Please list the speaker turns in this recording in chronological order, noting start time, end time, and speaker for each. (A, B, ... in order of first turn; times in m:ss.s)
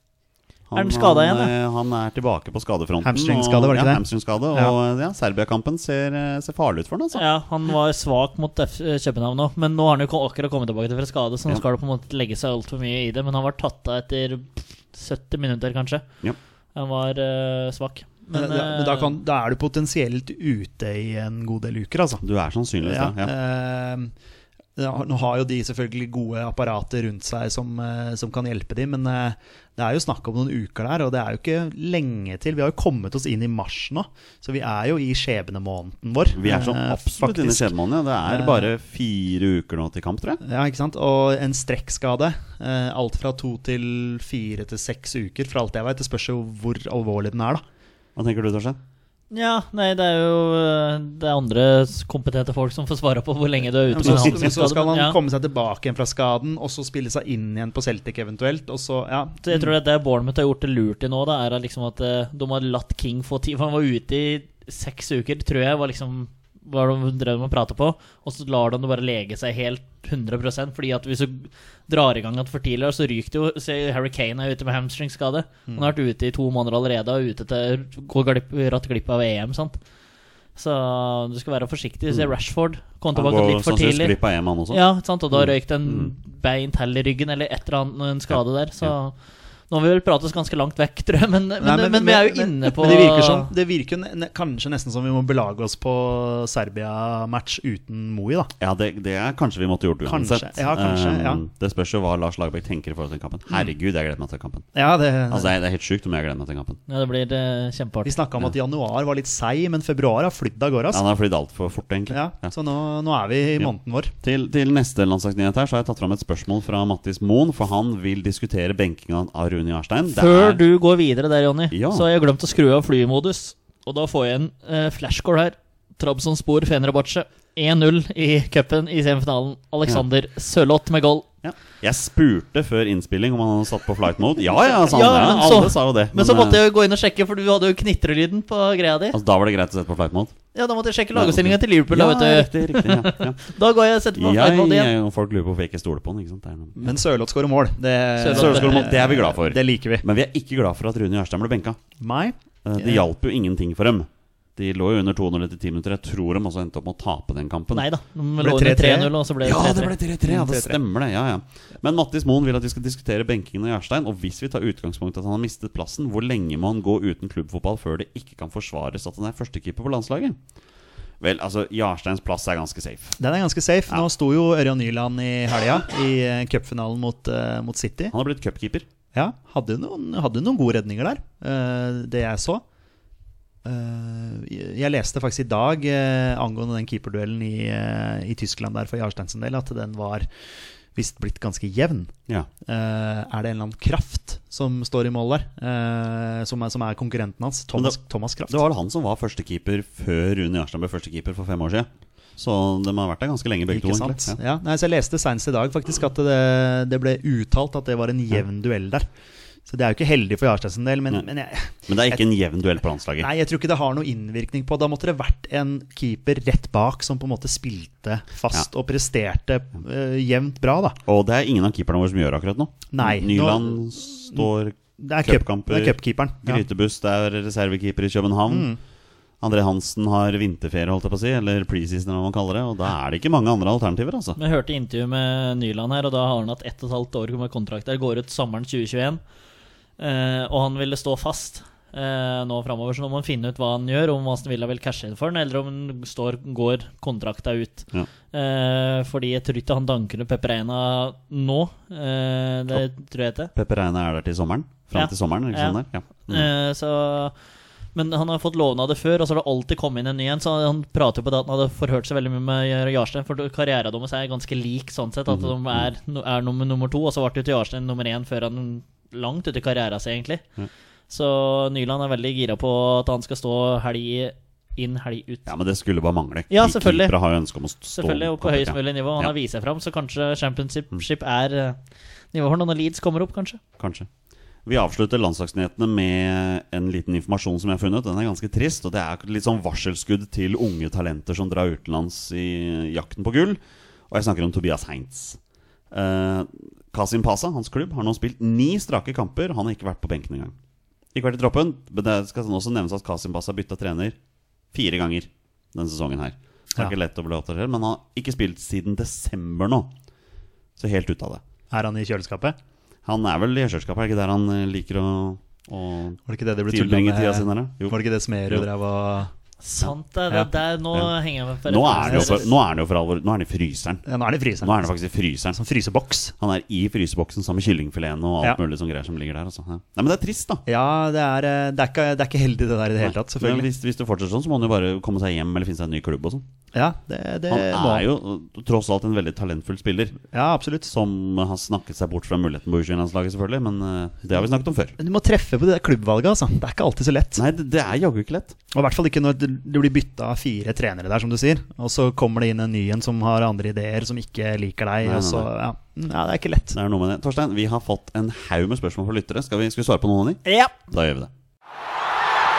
0:00.7-0:07.2 A
0:00.7-0:01.5 B
0:03.0-0:04.7 C
0:07.1-0:16.0 B
0:16.7-0:19.2 B
0:18.3-0:22.2 C
0:22.2-0:23.3 A
0:22.8-0:24.1 C
0:24.8-0:37.7 C
0:36.3-0:40.4 A
0:38.2-0:38.7 C
0:40.4-0:47.6 C
0:48.2-0:48.8 A
0:49.3-0:55.2 B
0:53.9-0:59.7 C
0:54.0-0:54.6 A
0:59.4-1:19.8 B
1:20.6-1:24.2 B
1:23.1-1:26.1 A
1:24.7-1:29.2 B
1:28.3-1:28.9 A
1:29.7-1:33.5 B
1:31.6-1:38.5 C
1:38.6-1:44.6 A
1:40.0-1:41.4 C
1:44.7-1:45.5 C
1:45.3-1:46.8 A
1:46.9-1:48.2 B
1:48.0-1:51.0 C
1:50.9-1:52.5 A
1:52.1-1:54.1 C
1:54.2-2:00.6 A
2:00.1-2:11.2 B
2:01.7-2:02.1 A
2:11.4-2:16.6 A
2:14.9-2:19.2 B
2:19.1-2:20.3 A
2:20.5-2:24.9 B
2:21.1-2:23.4 A
2:24.1-2:27.0 A
2:26.8-2:30.0 C
2:28.2-2:28.9 B
2:28.3-2:31.8 A
2:32.0-2:33.0 C
2:32.6-2:37.8 A
2:37.7-2:40.0 B
2:38.4-2:39.1 C
2:39.4-2:50.4 A
2:40.2-2:40.8 C
2:51.2-2:53.2 A
2:53.2-2:58.1 C
2:58.1-2:58.9 A
2:59.1-3:02.6 C
3:03.6-3:10.3 C
3:10.9-3:12.1 C
3:12.6-3:18.6 C
3:18.5-3:24.4 A
3:23.7-3:29.0 C
3:29.6-3:32.2 C
3:31.9-3:33.3 A
3:33.2-3:41.0 C
3:41.0-3:48.7 A
3:42.9-3:46.6 C
3:48.5-3:48.8 C
3:49.4-3:54.4 A
3:54.4-3:59.2 B
4:00.0-4:13.5 B
4:13.5-4:16.5 A
4:14.9-4:17.3 B
4:17.9-4:30.4 B
4:25.3-4:25.9 A
4:31.1-4:35.5 B
4:35.4-4:39.3 A
4:36.5-4:37.2 B
4:37.9-4:41.8 B
4:42.3-4:43.6 B
4:43.8-4:44.1 A
4:44.6-4:55.4 A
4:55.9-5:00.6 A
5:01.1-5:04.2 A
5:04.7-5:09.9 A
5:10.8-5:11.4 A
5:11.7-5:12.6 C
5:13.0-5:17.9 A
5:16.3-5:19.3 C
5:19.6-5:22.5 B
5:21.6-5:24.0 A
5:22.0-5:22.4 C
5:24.0-5:24.9 C
5:24.6-5:25.6 A
5:25.5-5:26.3 C
5:26.4-5:30.6 A
5:30.6-5:33.7 C
5:33.0-5:36.4 A
5:36.7-5:38.0 C
5:37.5-5:40.2 A
5:40.3-5:40.9 C
5:40.9-5:45.0 A
5:45.0-5:47.4 C
5:47.4-5:48.6 A
5:48.7-5:56.8 C
5:55.0-5:55.5 A
5:56.7-6:01.3 A
6:00.4-6:00.7 B